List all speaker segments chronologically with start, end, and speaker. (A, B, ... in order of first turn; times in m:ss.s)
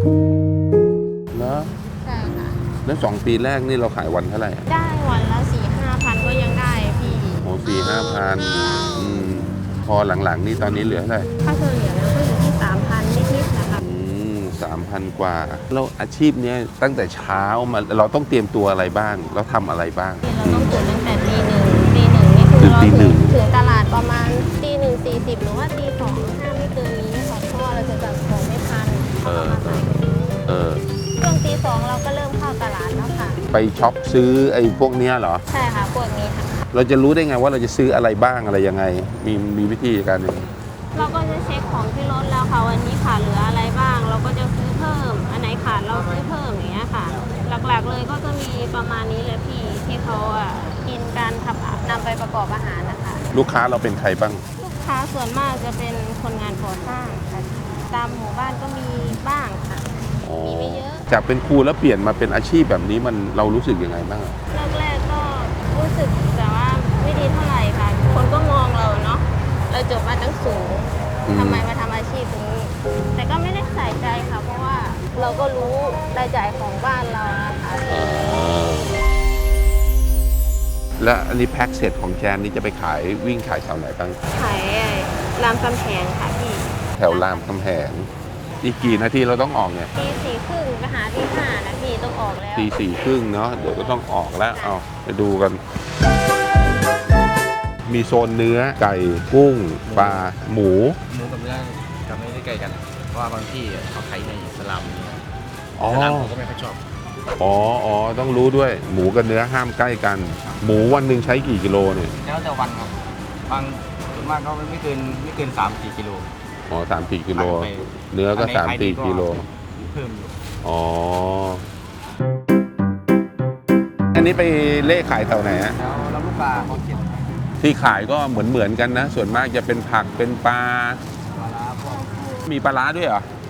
0:01.3-0:01.7 A
0:02.0-0:02.6 B
0:02.8-0:04.6 A
0:04.7-0:09.0 B
0:07.4-0:11.3 A
0:11.4-0:13.8 B
0:13.8-0:20.8 A
0:20.2-0:30.3 B
0:22.6-0:23.4 A
0:29.2-0:30.8 A
0:31.2-0:33.4 B
0:33.5-0:35.4 A
0:35.5-0:36.6 B
0:36.7-0:40.4 A
0:40.9-0:53.3 B
0:53.3-0:54.4 A
0:54.6-1:01.1 B
1:00.2-1:04.3 A
1:04.5-1:18.0 B
1:11.3-1:11.6 A
1:17.9-1:19.0 A
1:21.0-1:24.2 A
1:24.3-1:27.6 B
1:27.0-1:28.1 A
1:28.6-1:29.9 A
1:28.8-1:29.1 B
1:29.9-1:32.7 B
1:32.5-1:35.6 A
1:34.5-1:34.8 B
1:37.8-1:41.0 A
1:39.9-1:40.2 C
1:41.1-1:45.2 C
1:45.8-1:46.4 A
1:45.9-1:46.8 C
1:47.4-1:52.1 A
1:52.2-1:56.3 C
1:56.7-1:59.4 A
1:57.3-2:00.3 C
2:00.6-2:01.6 A
2:04.1-2:05.8 A
2:05.8-2:07.2 C
2:07.6-2:11.0 A
2:11.4-2:12.0 C
2:11.9-2:12.2 B
2:12.4-2:13.3 A